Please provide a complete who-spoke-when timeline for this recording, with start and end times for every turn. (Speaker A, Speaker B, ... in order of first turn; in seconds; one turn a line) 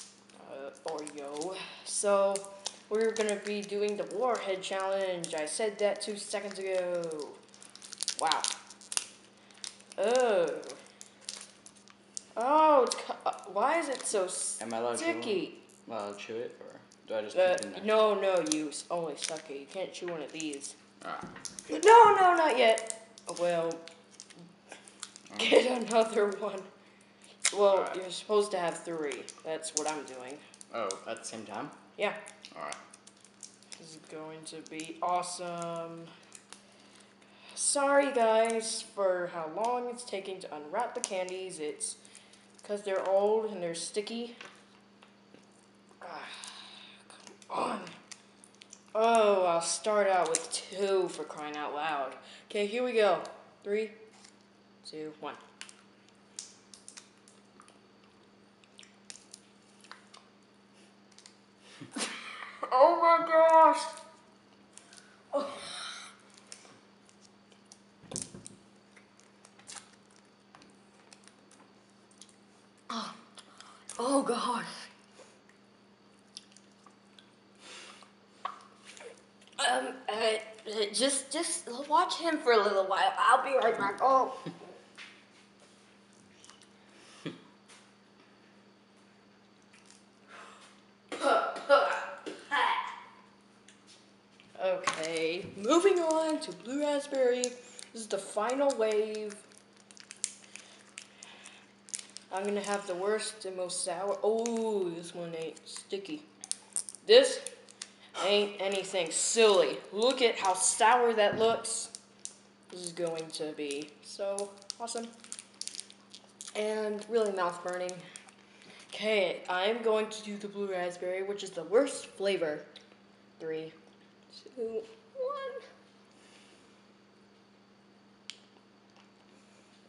Speaker A: 0.4-7.4
Speaker A: 8.2-8.5
Speaker A: 10.0-10.8
Speaker A: 12.3-15.6
Speaker B: 14.6-17.9
Speaker A: 17.3-20.8
Speaker B: 21.0-21.3
Speaker A: 21.7-23.8
Speaker B: 25.3-25.6
Speaker A: 25.3-26.7
Speaker A: 27.5-30.4
Speaker B: 27.6-28.0
Speaker B: 30.7-31.8
Speaker B: 32.5-32.8
Speaker A: 33.8-36.1
Speaker A: 37.5-42.0
Speaker A: 42.6-44.4
Speaker A: 46.0-48.0
Speaker A: 48.9-54.0
Speaker A: 54.8-55.4
Speaker A: 62.6-63.9
Speaker A: 65.3-65.9
Speaker A: 72.9-73.2
Speaker A: 74.0-74.9
Speaker A: 79.6-84.5
Speaker A: 91.2-92.7
Speaker A: 94.5-99.4
Speaker A: 102.3-106.2
Speaker A: 107.0-107.5
Speaker A: 108.2-111.9
Speaker A: 112.7-115.1
Speaker A: 116.5-118.0
Speaker A: 118.9-122.7
Speaker A: 123.4-123.7
Speaker A: 124.3-125.7